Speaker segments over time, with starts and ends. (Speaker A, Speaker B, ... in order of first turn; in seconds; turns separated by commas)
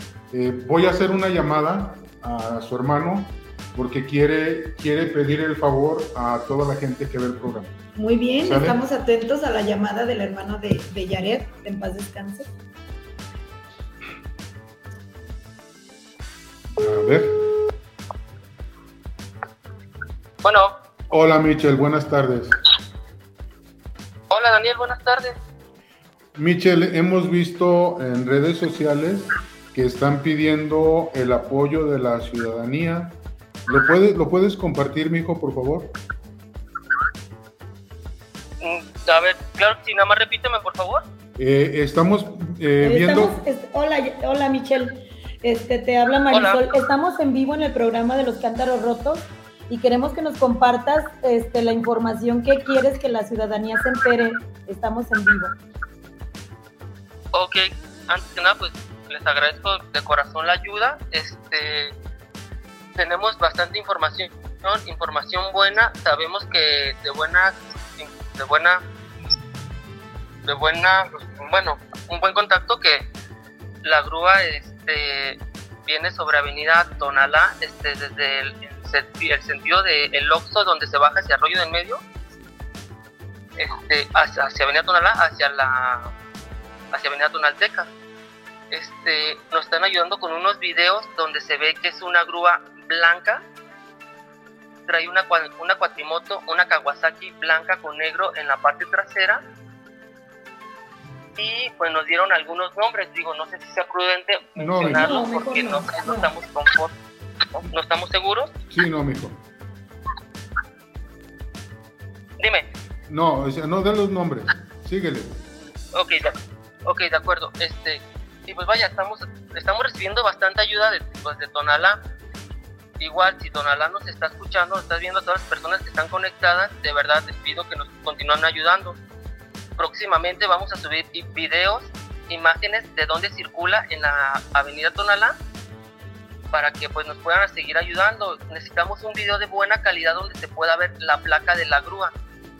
Speaker A: 0.3-7.8, Speaker B: 8.0-12.5, Speaker A: 8.4-8.8, Speaker A: 16.7-17.4, Speaker C: 20.4-20.7, Speaker A: 21.1-22.6, Speaker C: 24.3-25.4, Speaker A: 26.4-36.0, Speaker C: 38.6-41.0, Speaker A: 41.4-43.4, Speaker B: 42.8-55.6, Speaker C: 46.3-46.6, Speaker C: 57.3-62.0, Speaker C: 63.0-68.8, Speaker C: 70.5-73.1, Speaker C: 73.8-82.0, Speaker C: 83.6-86.1, Speaker C: 86.9-87.9, Speaker C: 88.7-93.4, Speaker C: 94.9-99.4, Speaker C: 101.4-107.0, Speaker A: 104.6-105.2, Speaker B: 104.8-106.3, Speaker C: 107.5-108.5, Speaker A: 108.7-109.4, Speaker C: 112.4-112.7, Speaker A: 113.1-115.4, Speaker C: 115.9-122.0, Speaker C: 123.0-129.0, Speaker C: 129.8-135.4, Speaker C: 136.5-142.1